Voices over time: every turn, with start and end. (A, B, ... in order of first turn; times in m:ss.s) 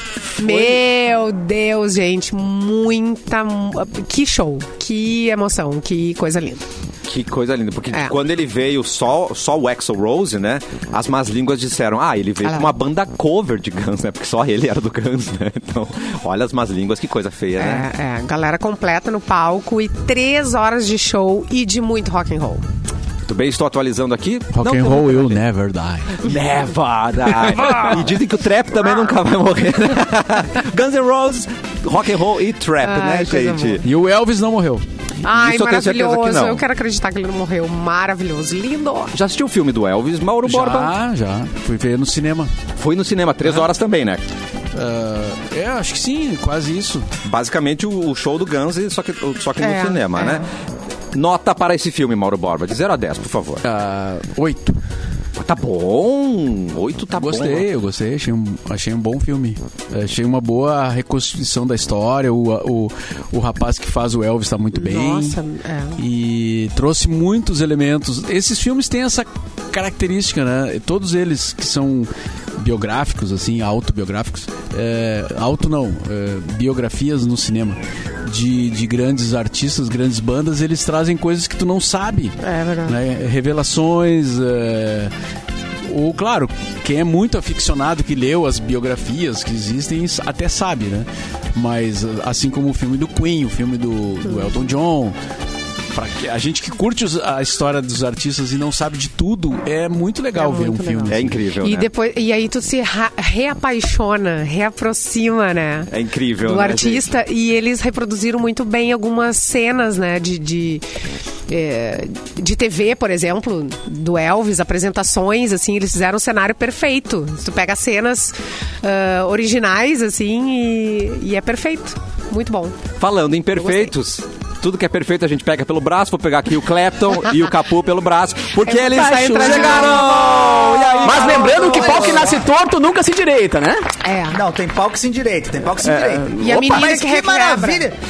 0:00.4-0:06.6 A
0:00.4-0:00.8 B
0:07.1-0:17.9 B
0:12.4-0:12.7 A
0:17.6-0:22.6 A
0:23.2-0:25.4 B
0:24.5-0:26.2 C
0:26.2-0:33.8 B
0:27.3-0:28.1 C
0:32.8-0:33.8 A
0:33.8-0:34.8 C
0:35.2-0:39.1 A
0:35.2-0:36.6 B
0:39.1-0:40.9 B
0:40.4-0:42.5 C
0:42.8-0:44.2 B
0:44.7-0:47.1 C
0:47.2-0:50.5 B
0:49.6-0:50.5 A
0:51.1-0:53.6 B
0:53.6-0:54.8 C
0:55.4-0:57.7 B
0:57.2-1:05.4 C
1:04.7-1:06.0 A
1:06.0-1:25.1 C
1:22.4-1:23.0 A
1:25.9-1:35.2 C
1:34.2-1:34.6 A
1:35.9-1:41.4 C
1:40.3-1:50.8 A
1:41.1-1:41.9 B
1:45.9-1:47.1 B
1:51.5-2:02.8 A
2:03.0-2:12.2 B
2:03.6-2:03.9 A
2:08.6-2:12.2 A
2:08.9-2:10.2 D
2:09.5-2:12.4 E
2:11.0-2:13.8 D
2:14.0-2:14.4 A
2:14.3-2:18.0 E
2:15.8-2:16.3 D
2:16.3-2:17.9 A